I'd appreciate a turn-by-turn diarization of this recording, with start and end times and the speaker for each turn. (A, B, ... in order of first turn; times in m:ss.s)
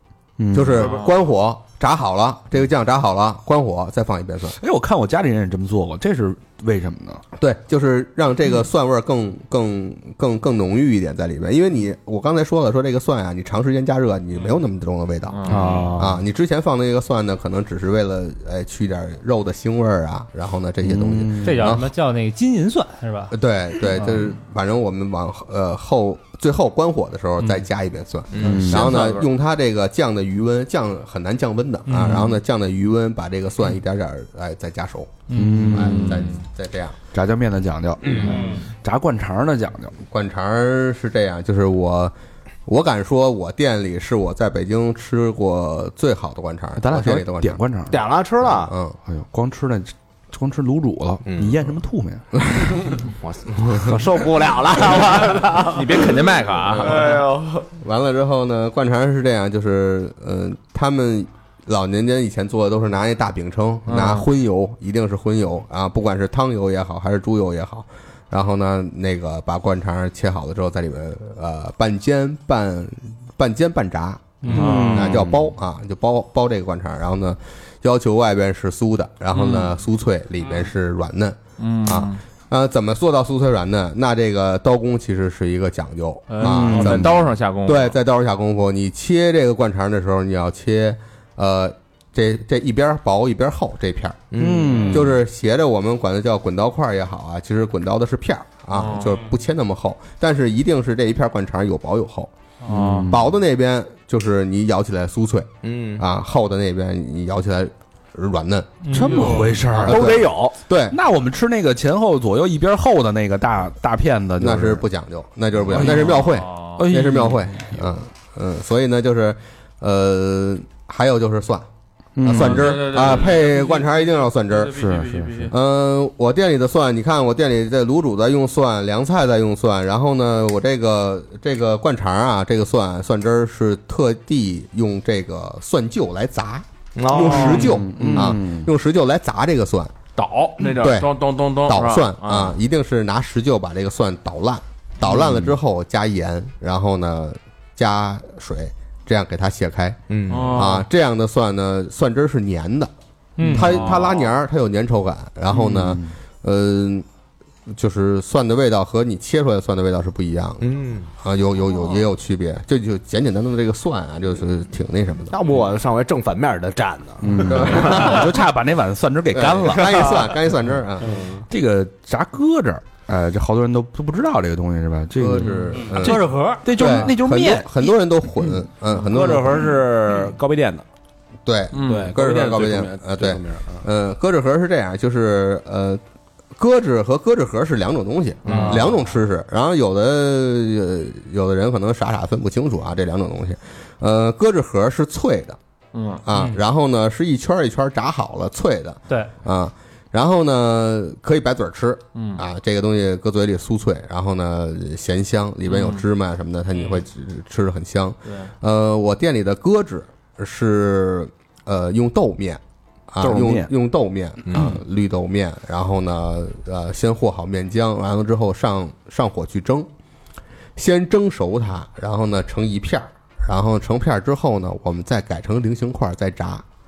0:00.4-0:00.9 A
0:00.5-0:04.6 B
0:00.8-0:01.2 C
0:04.6-0:07.2 A
0:07.4-0:21.9 B
0:15.3-0:16.0 C
0:15.4-0:16.2 A
0:20.8-0:21.8 A
0:21.4-0:23.3 D
0:23.3-0:35.2 B
0:28.3-0:28.7 E
0:28.4-0:29.0 A
0:31.9-0:32.2 D
0:35.3-0:36.0 D
0:35.3-0:36.4 A
0:35.7-0:37.0 B
0:37.1-0:39.9 A
0:38.0-0:38.4 E
0:40.1-0:42.1 B
0:42.6-0:47.6 B
0:46.8-0:48.0 A
0:47.9-0:48.7 E
0:48.6-0:49.0 B
0:49.0-0:52.4 A
0:51.2-0:51.6 E
0:53.2-0:56.2 E
0:55.7-0:57.2 C
0:56.7-0:57.1 B
0:57.0-0:57.6 E
0:57.7-1:34.2 B
1:03.9-1:04.3 C
1:14.4-1:14.7 D
1:14.4-1:15.2 C
1:14.5-1:15.4 A
1:19.3-1:19.7 C
1:21.6-1:22.2 C
1:26.3-1:28.0 C
1:26.4-1:27.2 A
1:34.3-1:35.0 E
1:34.4-1:35.2 A
1:34.9-1:42.3 B
1:38.7-1:39.2 C
1:42.6-1:43.2 C
1:42.7-1:43.4 A
1:43.1-1:48.8 B
1:45.6-1:46.0 E
1:48.8-1:49.2 D
1:48.9-1:50.2 A
1:48.9-1:49.5 C
1:49.3-1:51.0 B
1:49.8-1:50.6 E
1:50.9-1:54.8 A
1:54.4-2:01.7 B
1:55.7-1:57.9 A
1:55.8-1:56.8 C
2:02.2-2:03.2 A
2:02.2-2:04.8 B
2:02.3-2:05.5 C
2:04.7-2:05.5 A
2:05.5-2:19.9 B
2:17.0-2:17.8 E
2:17.1-2:18.7 A
2:20.1-2:22.6 C
2:20.6-2:21.1 B
2:21.6-2:30.0 B
2:25.1-2:25.5 A
2:30.1-2:30.6 E
2:30.3-2:30.9 C
2:30.5-2:32.9 B
2:33.4-2:33.7 D
2:33.5-2:37.0 B
2:33.5-2:34.3 C
2:35.5-2:36.1 A
2:37.7-2:40.7 B
2:40.6-2:41.1 E
2:41.2-2:45.4 B
2:45.3-2:48.1 E
2:47.2-2:50.4 A
2:47.5-2:48.3 B
2:49.3-2:51.1 B
2:51.0-2:51.4 E
2:51.5-2:58.0 A
2:55.2-2:59.6 B
2:55.9-2:56.7 D
2:59.1-3:00.8 F
3:01.4-3:06.0 B
3:01.7-3:02.1 C
3:01.8-3:03.8 F
3:06.6-3:15.6 B
3:08.4-3:08.8 F
3:15.9-3:16.2 C
3:16.2-3:39.9 B
3:22.1-3:22.4 C
3:25.7-3:26.0 C
3:33.2-3:33.7 A
3:40.8-3:46.6 B